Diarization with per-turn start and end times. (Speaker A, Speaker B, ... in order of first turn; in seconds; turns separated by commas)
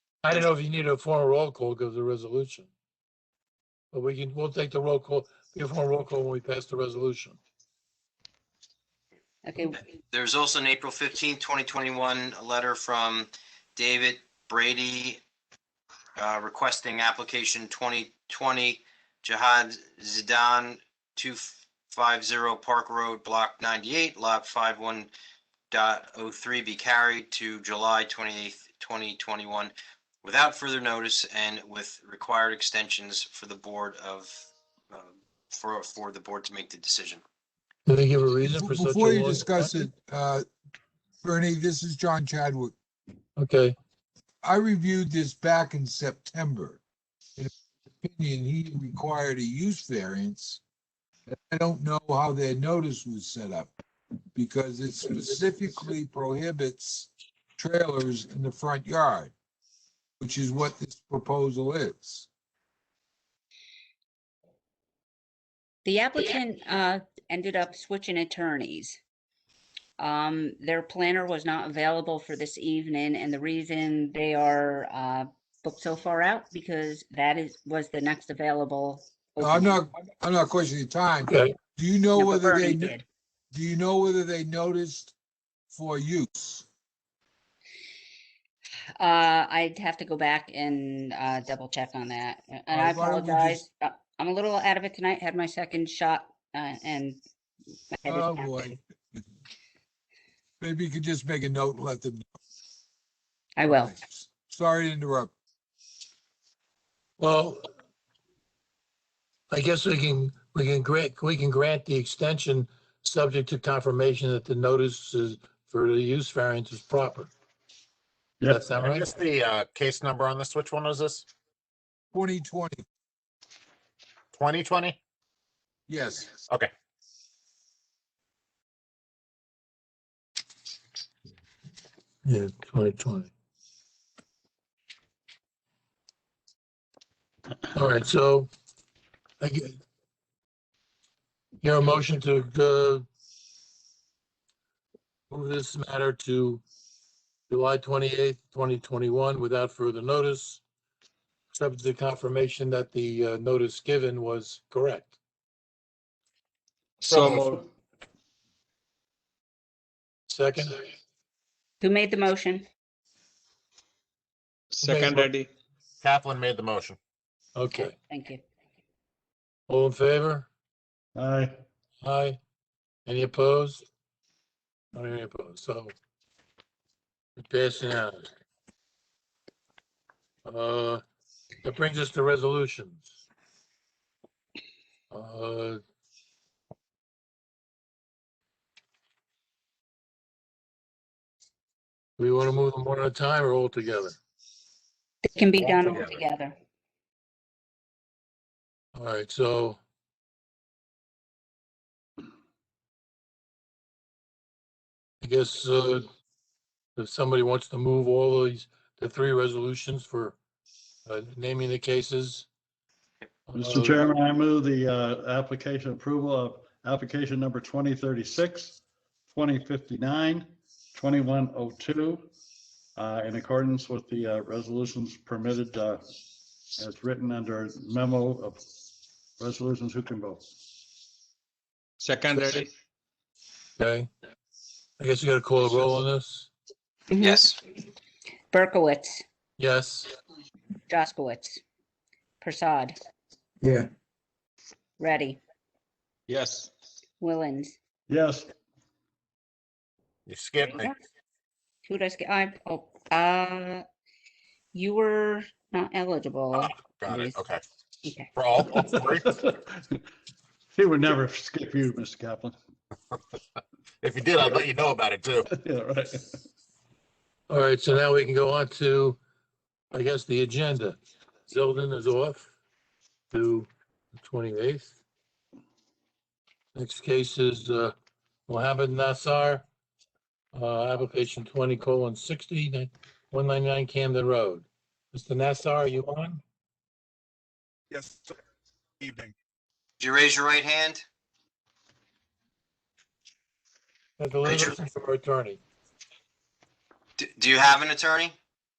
Speaker A: 0.2-2.7, Speaker A: 3.9-7.4, Speaker B: 9.5-9.8, Speaker C: 10.1-15.2, Speaker C: 16.2-25.1, Speaker C: 25.7-37.2, Speaker A: 37.9-39.8, Speaker D: 38.5-40.5, Speaker D: 41.2-42.7, Speaker A: 43.4-43.8, Speaker D: 44.4-46.8, Speaker D: 47.4-50.6, Speaker D: 51.3-53.7, Speaker D: 54.3-59.3, Speaker D: 60.2-62.3, Speaker B: 65.8-69.0, Speaker B: 70.0-79.8, Speaker D: 79.4-83.0, Speaker A: 81.3-81.5, Speaker B: 82.2-83.0, Speaker D: 83.5-85.1, Speaker D: 85.7-86.7, Speaker B: 89.0-97.2, Speaker D: 92.7-93.6, Speaker B: 97.9-98.8, Speaker D: 98.1-99.2, Speaker D: 100.6-102.2, Speaker B: 103.6-104.0, Speaker D: 103.7-105.3, Speaker A: 107.2-107.7, Speaker A: 109.5-117.3, Speaker E: 118.4-118.7, Speaker A: 118.5-119.1, Speaker F: 118.8-121.3, Speaker D: 122.1-122.8, Speaker F: 124.3-125.0, Speaker D: 125.9-126.4, Speaker A: 132.2-133.3, Speaker A: 137.7-138.5, Speaker A: 139.4-139.8, Speaker A: 141.6-143.1, Speaker A: 145.3-146.6, Speaker A: 147.5-150.6, Speaker A: 151.5-155.1, Speaker G: 157.0-157.5, Speaker F: 157.0-157.6, Speaker A: 160.3-160.8, Speaker B: 161.8-162.7, Speaker G: 164.7-165.5, Speaker A: 164.8-165.3, Speaker F: 166.0-167.0, Speaker A: 167.6-168.0, Speaker B: 168.1-168.4, Speaker A: 169.7-170.5, Speaker E: 171.2-171.6, Speaker A: 172.0-172.4, Speaker A: 173.1-173.8, Speaker A: 174.9-175.9, Speaker A: 177.4-178.3, Speaker A: 180.4-181.0, Speaker A: 181.6-183.1, Speaker A: 185.1-185.8, Speaker A: 192.2-194.2, Speaker B: 195.3-196.6, Speaker F: 195.8-196.1, Speaker A: 198.9-199.8, Speaker A: 205.2-206.1, Speaker A: 207.0-210.4, Speaker A: 211.1-212.5, Speaker A: 213.5-214.1, Speaker E: 213.6-218.8, Speaker E: 219.3-222.3, Speaker E: 223.0-226.0, Speaker E: 226.8-228.6, Speaker E: 229.4-230.4, Speaker G: 232.0-232.7, Speaker A: 233.8-234.1, Speaker A: 235.0-236.5, Speaker B: 237.1-237.5, Speaker B: 238.5-239.2, Speaker A: 239.6-240.1, Speaker B: 240.9-241.6, Speaker B: 242.4-243.0, Speaker B: 245.0-245.4, Speaker G: 246.3-246.7, Speaker B: 247.2-247.7, Speaker E: 248.1-248.5, Speaker F: 250.3-250.9, Speaker B: 250.7-251.0, Speaker B: 251.9-253.8, Speaker B: 254.7-257.4, Speaker F: 256.5-257.6, Speaker B: 258.0-258.3, Speaker F: 258.3-259.3, Speaker E: 258.7-260.0, Speaker E: 260.8-262.6, Speaker F: 264.0-265.5, Speaker E: 265.5-266.4, Speaker A: 267.5-269.2, Speaker A: 269.9-272.5, Speaker A: 273.3-274.9, Speaker A: 276.8-277.9, Speaker A: 278.5-279.6, Speaker A: 280.5-286.4, Speaker C: 287.9-288.3, Speaker C: 289.0-289.3, Speaker C: 290.0-291.0, Speaker A: 294.2-295.6, Speaker C: 297.2-298.3